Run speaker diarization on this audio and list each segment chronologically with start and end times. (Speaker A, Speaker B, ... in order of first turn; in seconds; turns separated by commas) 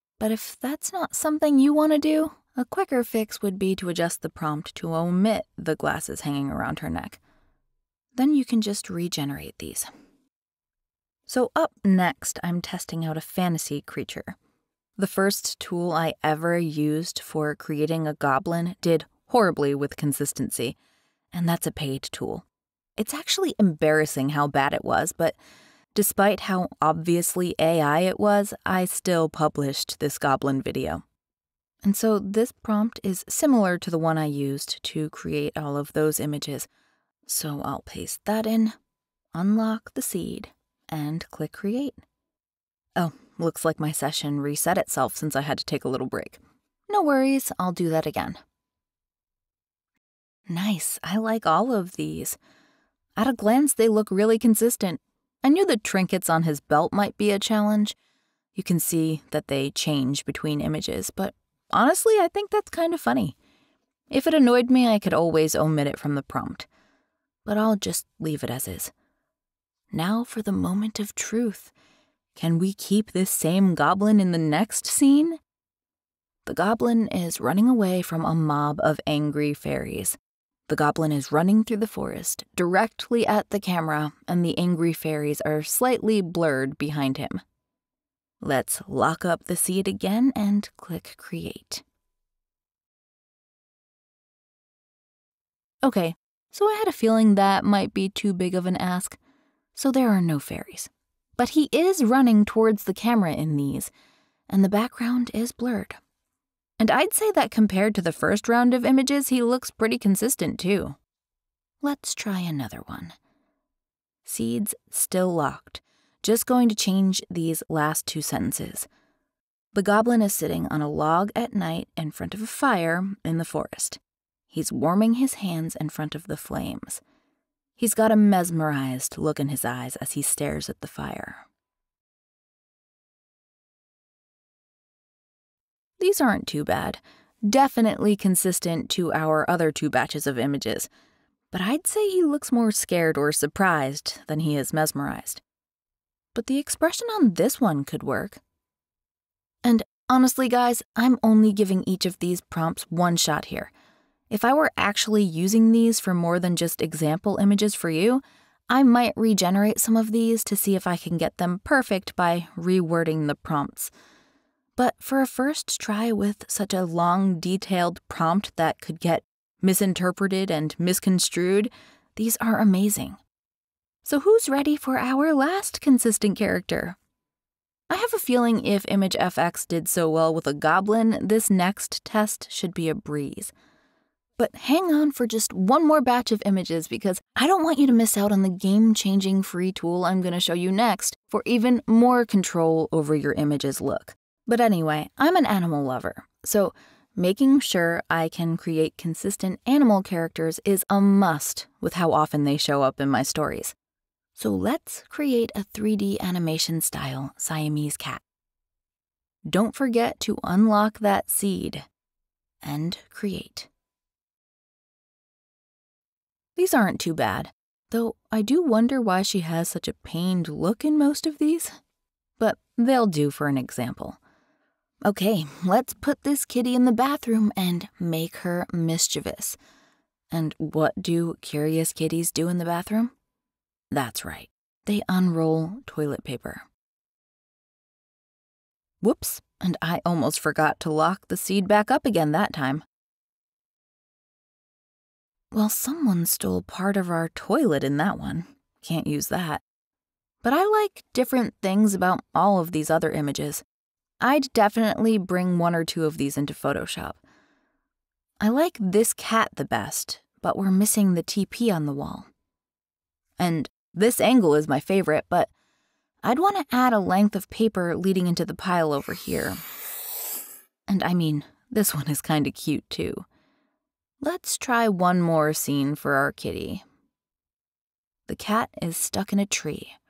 Speaker A: 0.2-7.2, Speaker A: 8.1-9.9, Speaker A: 11.3-14.3, Speaker A: 15.0-20.8, Speaker A: 21.3-22.4, Speaker A: 23.0-25.4, Speaker A: 25.9-31.0, Speaker A: 31.8-36.7, Speaker A: 37.2-38.7, Speaker A: 39.3-42.0, Speaker A: 43.0-48.4, Speaker A: 50.5-52.4, Speaker A: 53.2-58.0, Speaker A: 58.5-63.4, Speaker A: 64.1-66.7, Speaker A: 67.4-68.9, Speaker A: 69.9-71.7, Speaker A: 72.3-75.4, Speaker A: 76.4-87.4, Speaker A: 88.4-91.8, Speaker A: 95.8-99.2, Speaker A: 99.7-103.9, Speaker A: 104.5-106.0, Speaker A: 106.8-111.0, Speaker A: 111.8-113.1, Speaker A: 114.2-118.9, Speaker A: 119.7-127.0, Speaker A: 127.8-131.4, Speaker A: 136.0-140.9, Speaker A: 141.5-145.4, Speaker A: 146.3-148.4, Speaker A: 149.6-153.7, Speaker A: 154.3-163.9, Speaker A: 164.8-173.2, Speaker A: 174.0-177.0, Speaker A: 177.9-183.5, Speaker A: 184.4-203.7, Speaker A: 204.3-208.2, Speaker A: 209.4-211.8, Speaker A: 212.6-213.7, Speaker A: 216.6-221.8, Speaker A: 222.4-224.2, Speaker A: 225.0-229.6, Speaker A: 230.3-233.1, Speaker A: 233.9-236.7, Speaker A: 239.0-242.8, Speaker A: 245.5-249.6, Speaker A: 250.4-253.6, Speaker A: 254.2-257.2, Speaker A: 258.4-262.3, Speaker A: 263.4-265.5, Speaker A: 266.2-269.6, Speaker A: 270.9-273.2, Speaker A: 274.2-276.8, Speaker A: 278.3-280.0